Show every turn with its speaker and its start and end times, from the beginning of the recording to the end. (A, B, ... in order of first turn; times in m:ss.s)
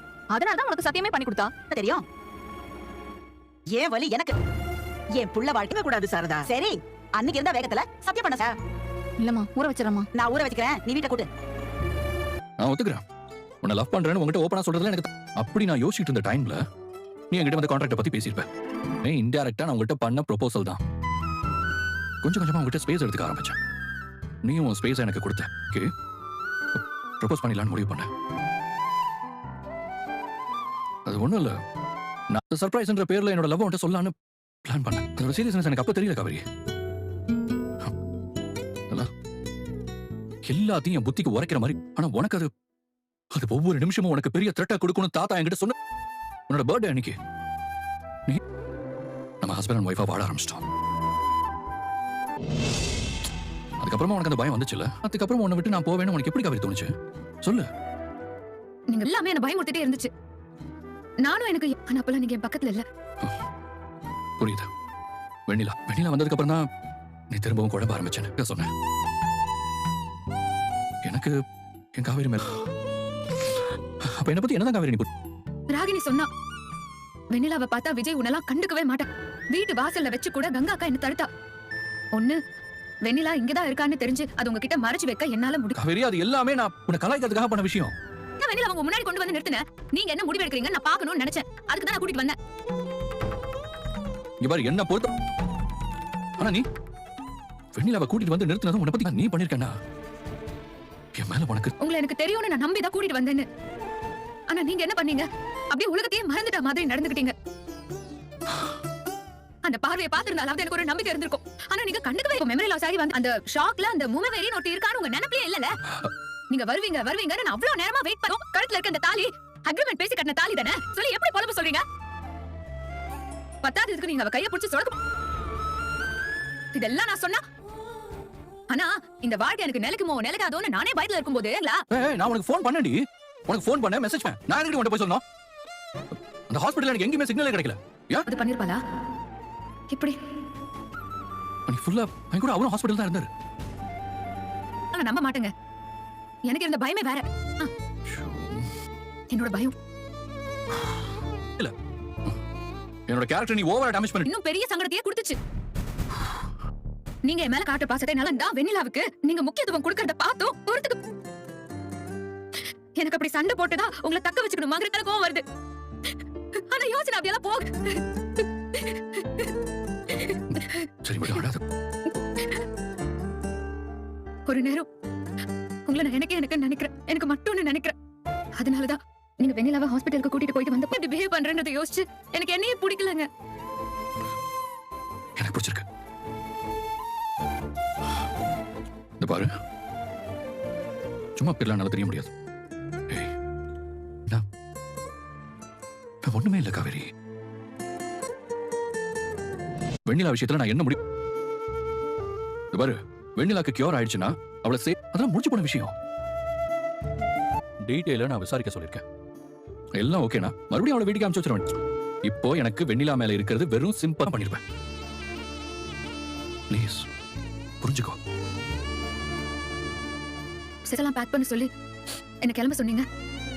0:00.3-0:01.5 A
0:01.7-0:02.0 B
0:03.7-0:04.4 B
0:05.2-0:08.6 B
0:09.2-0:10.1 A
0:10.1-0:11.3 B
0:12.6-0:13.0 C
0:13.6-0:16.6 C
0:17.3-0:18.5 C
0:19.0-0:20.8 C
0:22.2-0:23.6 C
0:24.4-0:25.9 C
0:26.8-0:28.1 C
0:31.1-0:31.6 C
0:32.3-0:34.1 C
0:34.6-0:36.4 C
0:40.4-0:42.5 C
0:43.3-0:45.8 C
0:46.5-0:47.2 C
0:49.4-0:50.6 C
0:53.8-0:57.7 C
0:58.9-1:00.1 D
1:01.2-1:02.8 D
1:04.4-1:04.7 C
1:05.5-1:06.7 C
1:07.3-1:08.7 C
1:11.0-1:11.4 C
1:12.0-1:12.6 C
1:13.3-1:15.1 C
1:15.7-1:16.3 D
1:17.3-1:21.3 D
1:23.0-1:25.8 D
1:25.8-1:27.9 C
1:28.4-1:32.4 D
1:34.4-1:35.1 C
1:36.4-1:36.6 C
1:37.8-1:39.8 C
1:41.2-1:41.7 C
1:41.8-1:43.5 D
1:44.5-1:47.4 D
1:49.6-1:55.7 D
1:56.5-2:01.8 D
2:03.6-2:05.0 D
2:06.7-2:07.4 D
2:08.7-2:11.8 D
2:11.9-2:15.2 C
2:16.5-2:18.3 C
2:18.2-2:18.8 D
2:19.9-2:20.2 D
2:21.7-2:23.3 C
2:24.9-2:25.5 D
2:26.5-2:27.7 D
2:28.1-2:28.7 C
2:29.3-2:29.8 D
2:33.1-2:34.3 C
2:34.2-2:35.4 D
2:37.2-2:41.0 D
2:43.0-2:45.4 D
2:46.7-2:49.5 D
2:50.1-2:50.9 D
2:50.5-2:51.6 C
2:54.5-2:54.9 D
2:55.9-2:58.0 D
2:58.6-3:03.3 D
3:05.4-3:05.8 C
3:09.2-3:09.5 C
3:11.4-3:12.3 C
3:16.2-3:17.1 C
3:20.1-3:21.0 C
3:22.7-3:25.9 C
3:27.8-3:29.0 C
3:30.0-3:31.7 C
3:32.2-3:34.6 C
3:36.7-3:37.1 C
3:37.8-3:38.2 C
3:40.9-3:41.7 D
3:42.4-3:43.1 D